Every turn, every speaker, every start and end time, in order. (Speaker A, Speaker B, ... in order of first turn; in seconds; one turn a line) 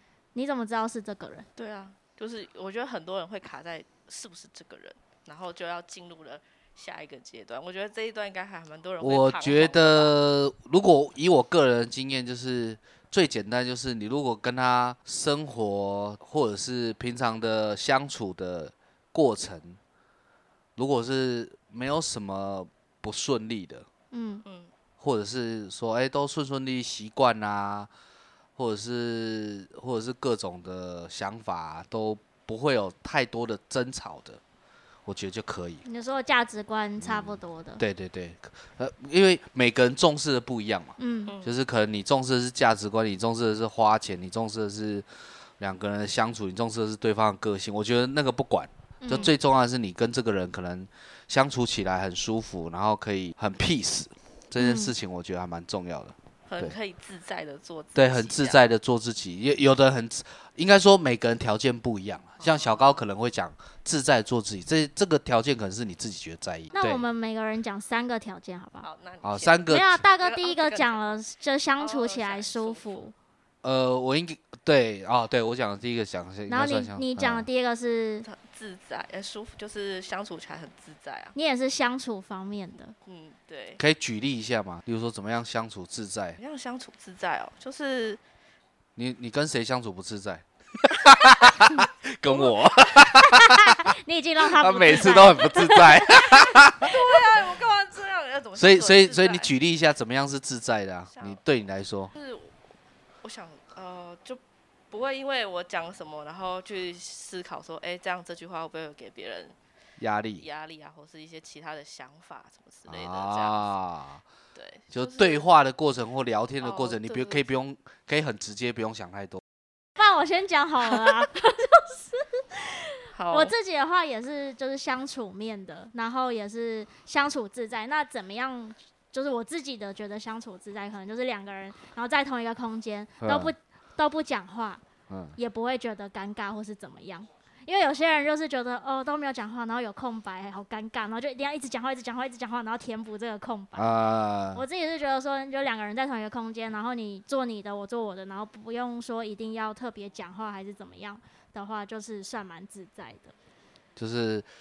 Speaker A: 0.3-1.5
Speaker B: 1.6-10.1
Speaker C: 9.0-19.8
Speaker C: 20.8-23.9
Speaker A: 24.1-24.4
Speaker B: 24.4-24.7
Speaker C: 25.0-27.9
Speaker C: 28.6-34.4
Speaker C: 35.0-35.8
Speaker A: 35.8-37.8
Speaker C: 37.0-45.0
Speaker A: 41.0-41.3
Speaker B: 41.3-41.5
Speaker C: 45.6-56.8
Speaker A: 49.0-49.3
Speaker A: 54.6-54.9
Speaker B: 56.5-58.6
Speaker C: 57.9-67.0
Speaker B: 62.4-63.0
Speaker A: 66.7-68.9
Speaker B: 68.8-71.1
Speaker C: 69.2-70.0
Speaker A: 69.7-73.1
Speaker B: 71.8-73.0
Speaker C: 73.6-77.5
Speaker A: 76.5-78.3
Speaker B: 78.2-81.3
Speaker A: 81.3-82.9
Speaker B: 83.0-83.8
Speaker C: 83.8-86.4
Speaker B: 86.4-88.2
Speaker C: 89.0-93.9
Speaker B: 92.3-93.0
Speaker A: 93.2-96.6
Speaker C: 94.5-96.9
Speaker B: 96.8-99.5
Speaker C: 98.5-102.1
Speaker B: 101.1-101.4
Speaker B: 102.1-102.5
Speaker B: 103.2-109.5
Speaker C: 110.0-110.5
Speaker B: 110.4-113.7
Speaker C: 112.9-114.2
Speaker B: 114.5-115.5
Speaker C: 114.9-119.4
Speaker B: 116.6-117.5
Speaker A: 120.0-134.8
Speaker B: 123.1-123.5
Speaker C: 133.2-133.5
Speaker C: 135.1-135.3
Speaker A: 135.3-143.9
Speaker C: 143.7-144.6
Speaker A: 144.5-153.3
Speaker C: 153.9-154.4